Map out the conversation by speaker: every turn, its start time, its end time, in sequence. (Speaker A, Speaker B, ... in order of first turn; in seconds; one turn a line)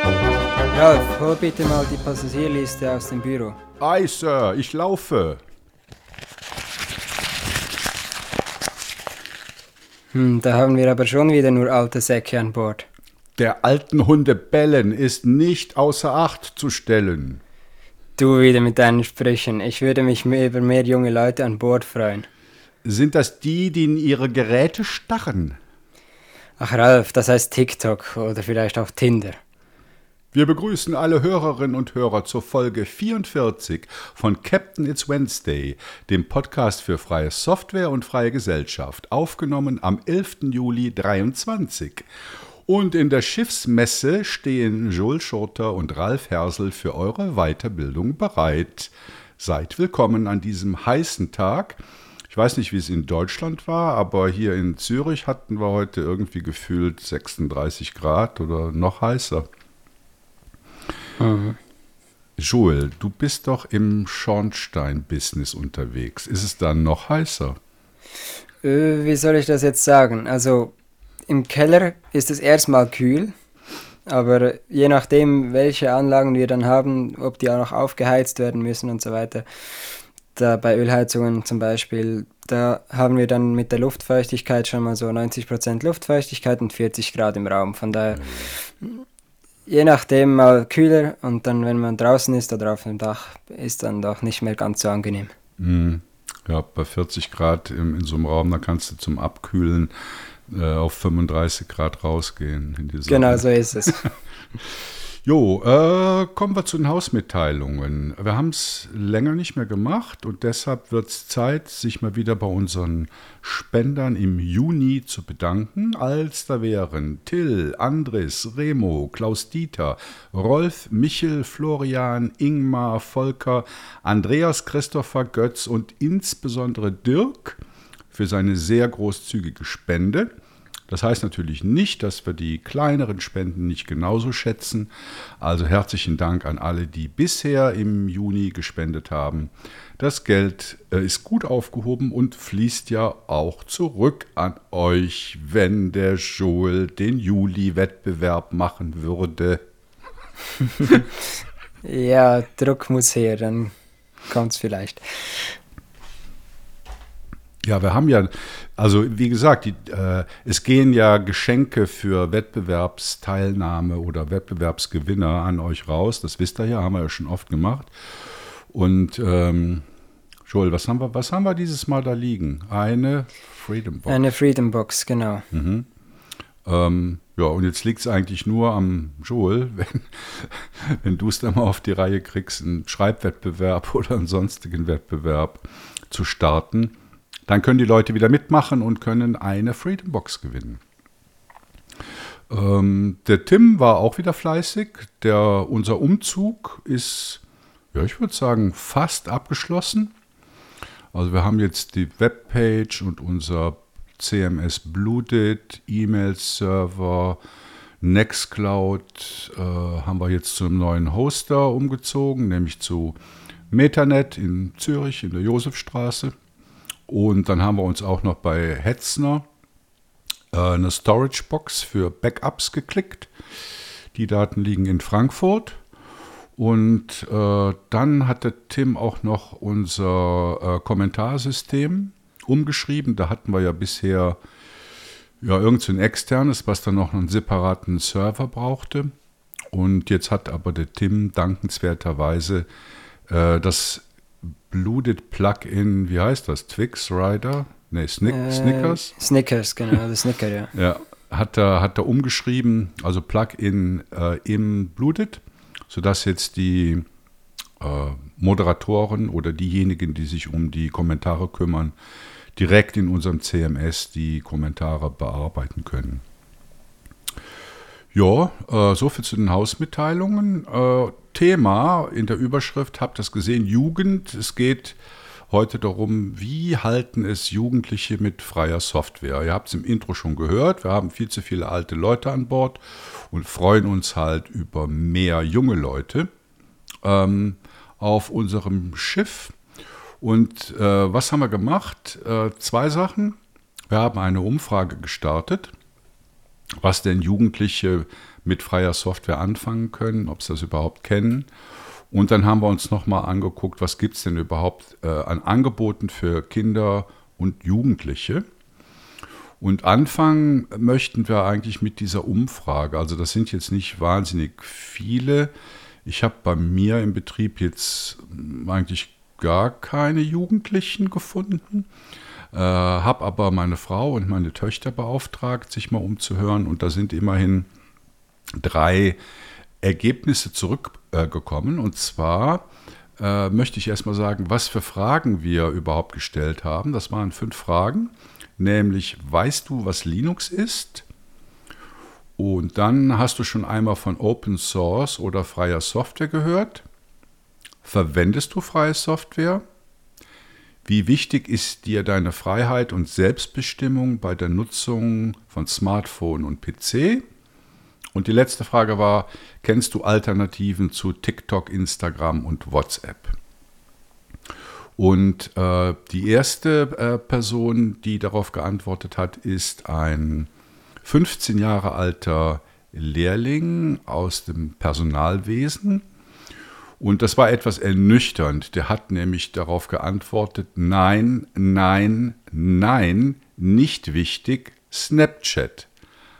Speaker A: 0.7-3.6
Speaker B: 3.8-5.4
Speaker A: 10.1-12.9
Speaker B: 13.4-17.4
Speaker A: 18.2-22.3
Speaker B: 22.8-25.6
Speaker A: 26.6-29.4
Speaker B: 30.3-42.1
Speaker B: 42.7-59.5
Speaker A: 61.2-61.6
Speaker B: 62.4-67.6
Speaker A: 68.6-70.7
Speaker A: 71.3-73.3
Speaker A: 74.1-79.5
Speaker A: 80.3-89.0
Speaker B: 88.2-88.5
Speaker A: 89.7-95.3
Speaker B: 95.6-99.9
Speaker B: 100.5-103.9
Speaker A: 103.1-104.1
Speaker B: 105.2-127.6
Speaker B: 128.1-130.3
Speaker B: 130.9-149.6
Speaker A: 151.8-153.7
Speaker A: 154.3-155.6
Speaker B: 157.6-167.9
Speaker B: 168.7-169.8
Speaker B: 170.5-174.2
Speaker A: 174.1-175.5
Speaker B: 175.5-175.9
Speaker B: 176.7-187.0
Speaker B: 187.5-190.8
Speaker B: 192.5-197.4
Speaker B: 197.9-200.1
Speaker B: 201.1-207.4
Speaker B: 208.0-213.2
Speaker B: 213.7-216.3
Speaker B: 217.1-219.5
Speaker B: 220.5-223.3
Speaker B: 224.1-225.8
Speaker B: 226.6-234.4
Speaker B: 235.4-239.1
Speaker B: 239.7-242.7
Speaker B: 243.3-244.1
Speaker B: 244.7-249.1
Speaker A: 248.3-250.7
Speaker B: 250.7-257.1
Speaker B: 257.8-261.9
Speaker B: 262.6-266.2
Speaker B: 268.1-275.0
Speaker B: 275.5-286.3
Speaker B: 287.0-289.6
Speaker B: 290.2-293.4
Speaker B: 293.9-295.7
Speaker B: 296.8-301.5
Speaker B: 302.1-308.4
Speaker B: 309.6-315.5
Speaker B: 316.1-321.9
Speaker B: 322.5-327.7
Speaker B: 328.6-329.2
Speaker B: 329.8-332.7
Speaker B: 333.2-341.1
Speaker B: 342.4-346.9
Speaker B: 347.8-349.6
Speaker B: 350.9-357.2
Speaker B: 358.1-363.4
Speaker B: 365.0-370.5
Speaker B: 371.0-376.1
Speaker B: 377.0-385.9